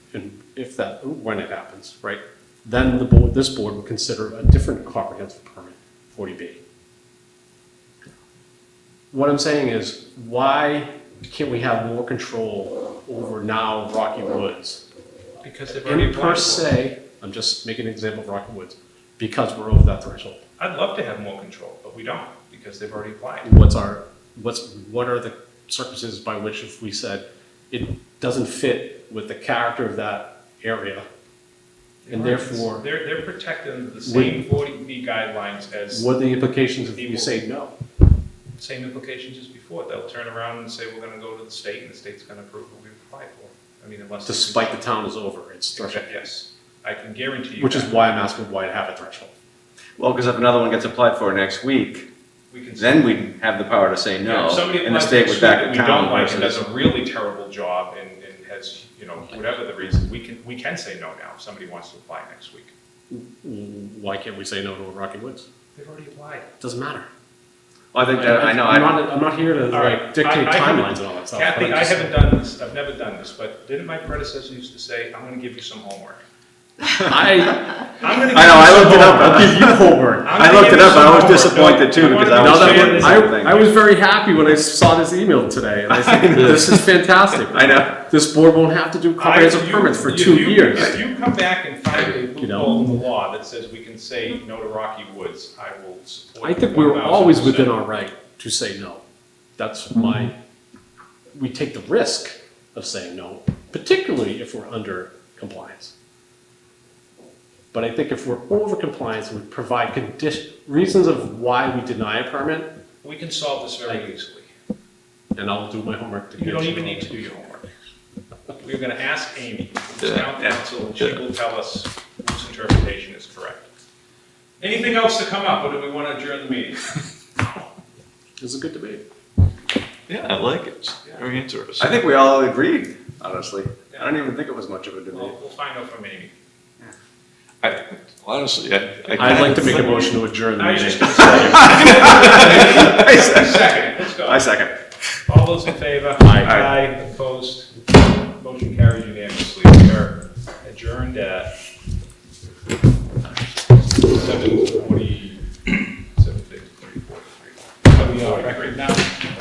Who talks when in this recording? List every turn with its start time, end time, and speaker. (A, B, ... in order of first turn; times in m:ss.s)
0:00.1-0:06.6 A
0:09.1-0:14.8 A
0:15.4-0:16.7 B
0:15.8-0:20.4 A
0:20.6-0:23.5 B
0:23.4-0:31.0 A
0:32.0-0:36.1 B
0:32.1-0:32.8 A
0:34.0-0:34.4 A
0:35.9-0:37.7 A
0:36.9-0:37.4 B
0:38.5-0:44.8 B
0:44.2-0:46.1 A
0:45.8-0:48.1 B
0:47.6-0:49.3 A
0:50.0-0:52.1 C
0:52.5-0:53.2 B
0:52.8-0:56.7 C
0:54.2-1:02.7 B
1:03.1-1:05.5 A
1:05.8-1:06.5 B
1:06.6-1:07.1 A
1:07.9-1:09.0 C
1:08.0-1:12.2 A
1:09.7-1:16.2 B
1:17.0-1:20.7 A
1:18.0-1:19.4 B
1:18.3-1:19.8 C
1:20.2-1:23.7 B
1:20.3-1:23.7 C
1:22.3-1:31.0 A
1:25.9-1:26.8 C
1:27.5-1:28.0 C
1:29.2-1:37.8 B
1:32.3-1:32.8 A
1:36.4-1:39.0 A
1:39.6-1:40.3 A
1:41.3-1:45.9 A
1:47.7-1:52.7 A
1:53.0-1:54.5 B
1:55.3-1:57.2 A
1:56.4-1:57.6 B
1:58.5-2:03.7 B
2:00.0-2:00.3 D
2:04.6-2:06.9 B
2:08.4-2:09.0 A
2:10.1-2:12.0 D
2:11.8-2:15.3 C
2:15.1-2:16.3 B
2:17.6-2:19.9 D
2:19.2-2:22.3 A
2:19.5-2:24.6 B
2:21.6-2:22.6 D
2:21.6-2:24.7 C
2:25.2-2:27.7 B
2:26.4-2:26.7 C
2:28.3-2:31.5 B
2:34.0-2:39.2 B